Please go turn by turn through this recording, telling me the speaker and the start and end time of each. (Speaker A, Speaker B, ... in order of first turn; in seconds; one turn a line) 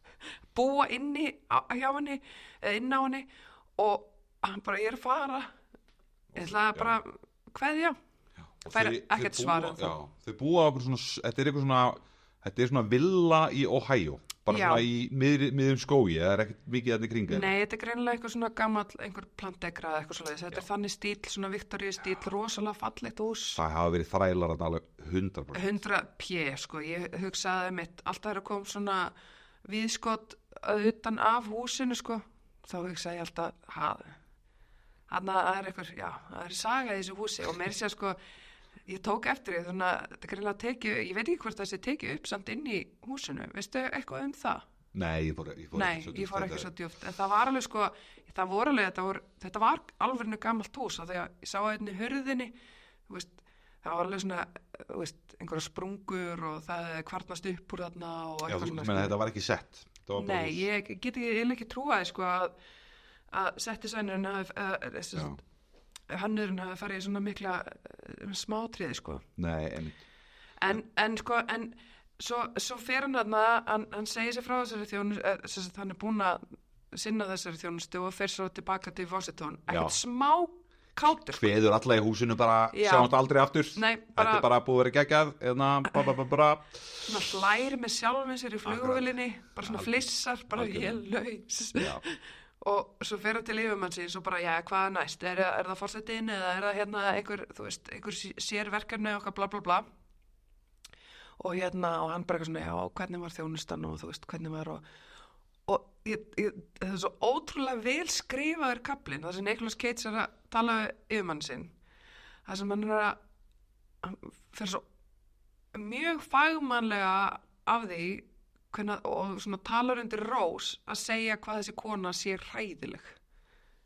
Speaker A: 0.5-5.5
Speaker B: 6.3-7.0
Speaker A: 6.3-8.0
Speaker B: 8.6-17.5
Speaker A: 8.7-9.9
Speaker A: 14.5-14.9
Speaker A: 17.3-23.6
Speaker B: 23.6-25.7
Speaker A: 25.5-29.1
Speaker A: 29.6-34.2
Speaker A: 35.1-38.2
Speaker A: 38.9-44.6
Speaker B: 44.9-46.7
Speaker A: 45.7-52.5
Speaker A: 53.1-59.1
Speaker B: 58.5-60.7
Speaker A: 60.2-62.5
Speaker A: 63.3-65.4
Speaker A: 66.1-69.2
Speaker B: 69.4-70.0
Speaker A: 70.6-81.5
Speaker B: 79.7-79.9
Speaker B: 81.3-87.0
Speaker A: 82.7-83.1
Speaker A: 83.8-84.5
Speaker A: 87.1-99.8
Speaker B: 88.7-89.0
Speaker B: 89.6-91.0
Speaker B: 91.8-92.0
Speaker A: 101.4-104.8
Speaker A: 105.7-111.7
Speaker A: 112.5-113.2
Speaker A: 114.0-114.8
Speaker A: 115.7-123.2